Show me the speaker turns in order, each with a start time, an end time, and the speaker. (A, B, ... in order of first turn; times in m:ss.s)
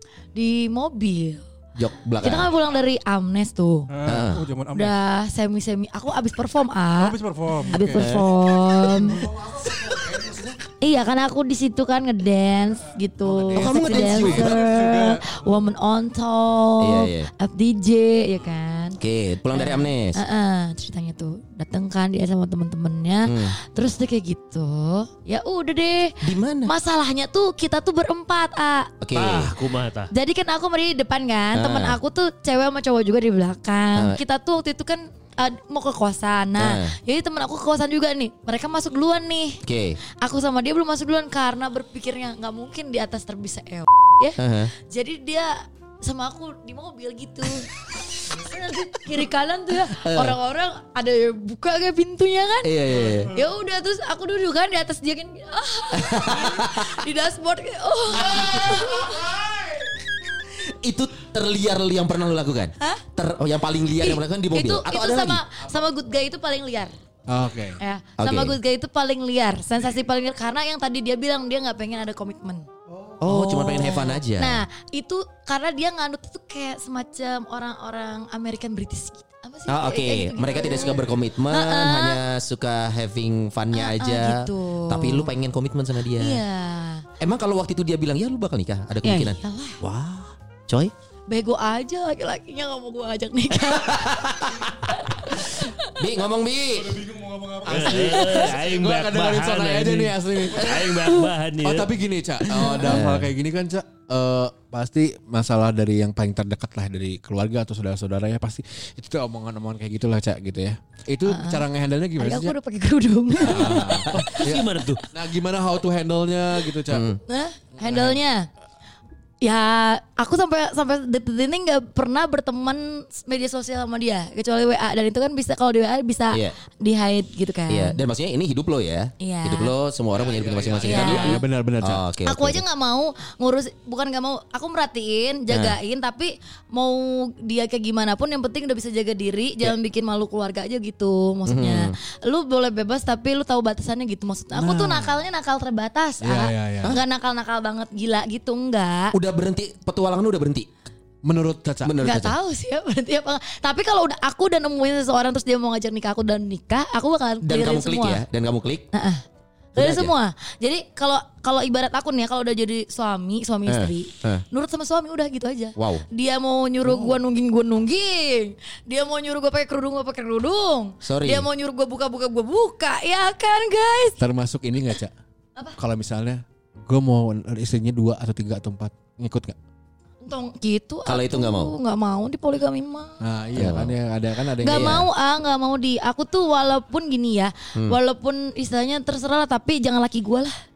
0:00.4-0:01.5 A
0:01.8-0:02.5 B
0:02.2-0:03.9 A
0:03.9-0:05.0 C
0:04.1-0:04.4 B
0:04.7-0:09.3 A
0:07.0-0:08.0 C
0:07.7-0:08.0 D
0:07.8-0:08.7 B
0:09.0-0:10.6 D
0:10.8-0:19.0 A
0:13.2-0:14.6 D
0:13.5-0:14.8 B
0:14.2-0:15.4 C
0:16.8-0:17.3 B
0:19.0-0:20.2 B
0:19.5-0:28.9 A
0:23.2-0:23.6 B
0:26.2-0:26.7 B
0:29.0-0:29.5 B
0:29.1-0:30.1 E
0:30.1-0:39.6 A
0:31.5-0:32.0 B
0:34.0-0:34.2 B
0:36.6-0:37.0 B
0:39.6-0:40.0 B
0:40.2-0:59.3 A
0:44.4-0:44.7 B
0:49.9-0:50.4 B
0:52.6-0:53.4 B
0:55.9-0:56.9 B
0:58.3-0:59.6 D
1:00.6-1:05.4 B
1:04.0-1:06.9 A
1:07.3-1:07.8 D
1:07.8-1:12.7 A
1:08.2-1:08.6 B
1:12.9-1:13.2 C
1:13.2-1:14.6 B
1:13.3-1:22.2 A
1:19.7-1:26.4 B
1:23.7-1:25.3 A
1:26.2-1:27.0 A
1:27.2-1:30.9 B
1:29.0-1:29.8 A
1:31.3-1:35.9 A
1:33.7-1:35.4 B
1:36.0-1:37.1 B
1:36.8-1:38.5 C
1:37.6-1:52.6 D
1:37.7-1:41.9 E
1:40.6-1:40.9 B
1:42.5-1:43.0 A
1:42.8-1:43.3 B
1:51.3-1:51.7 A
1:52.2-1:54.4 A
1:53.4-1:57.1 D
1:54.1-1:55.0 E
1:56.9-1:57.2 B
1:57.3-1:58.5 A
1:57.8-1:58.2 D
1:59.4-2:08.0 A
2:07.7-2:12.6 B
2:09.2-2:09.7 A
2:10.1-2:12.0 D
2:10.8-2:11.4 A
2:12.2-2:29.2 A
2:15.5-2:15.8 B
2:21.5-2:22.0 B
2:24.5-2:25.1 D
2:26.2-2:26.9 D
2:29.1-2:30.7 B
2:31.2-2:32.0 D
2:31.8-2:32.4 B
2:32.0-2:38.2 A
2:37.4-2:38.9 B
2:38.9-2:39.2 A
2:39.8-2:40.1 B
2:39.8-2:54.2 A
2:43.7-2:44.4 B
2:45.8-2:46.0 B
2:46.8-2:47.2 D
2:51.0-2:51.5 B
2:54.2-2:55.1 D
2:55.8-2:59.6 D
3:00.2-3:03.1 A
3:01.1-3:01.8 B
3:03.2-3:05.1 D
3:03.6-3:04.0 B
3:04.6-3:10.5 A
3:04.6-3:05.1 B